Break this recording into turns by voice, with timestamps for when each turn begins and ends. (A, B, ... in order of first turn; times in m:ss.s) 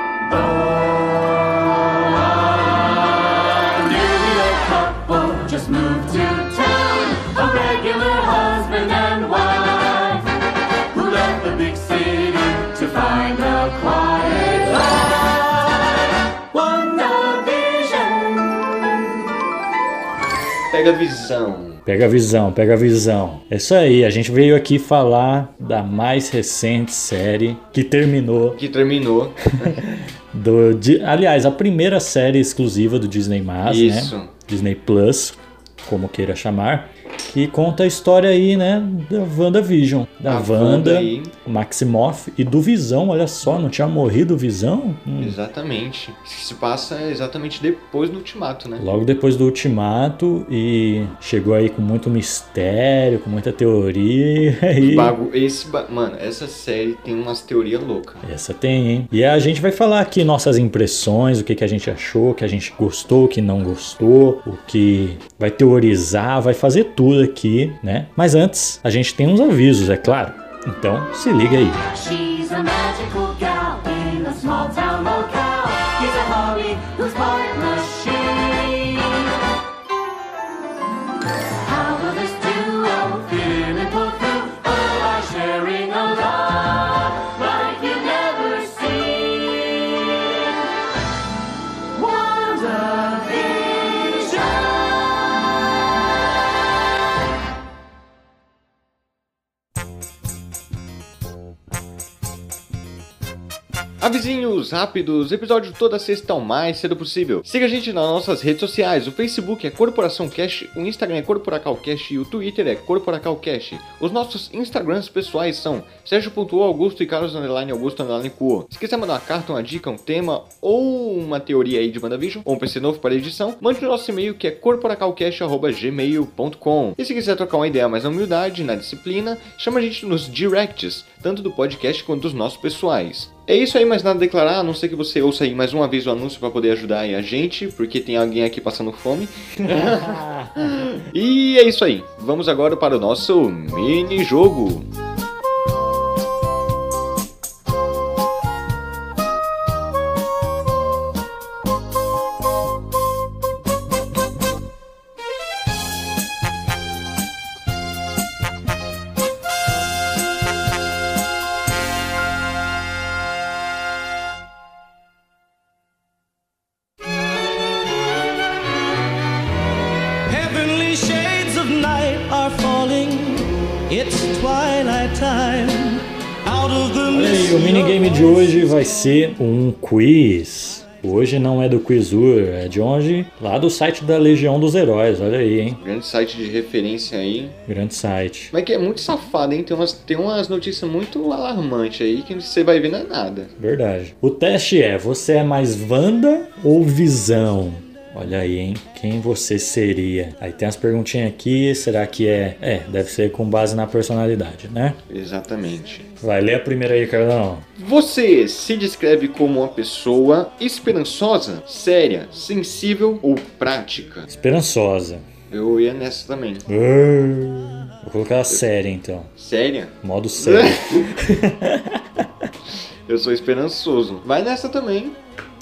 0:00.4-0:01.2 A
0:01.9-0:10.3 A
0:10.9-0:18.8 A
0:20.7-0:21.8 B
0:21.8-0:28.6 C
0:28.6-0:29.8 B
0:29.6-0:45.4 C
0:33.6-0:34.3 B
0:40.3-0:41.3 B
0:45.2-0:48.9 B
0:48.8-0:55.2 C
0:54.8-0:58.2 B
0:58.2-1:11.8 C
1:11.8-1:19.3 A
1:21.6-1:30.4 A
1:31.9-1:34.8 A
1:44.0-2:24.9 B
2:19.6-2:20.9 C
2:50.3-2:58.6 D
2:57.1-3:05.8 C
3:05.8-3:07.6 B
3:07.7-3:08.5 C
3:08.5-3:13.5 B
3:13.6-3:25.0 C
3:25.1-3:26.1 B
3:26.2-3:27.7 C
3:27.8-3:34.3 B
3:34.3-3:35.3 C
3:35.5-3:36.7 B
3:36.7-3:39.3 C
3:39.4-3:41.1 B
3:40.0-3:42.5 C
3:43.1-3:45.2 B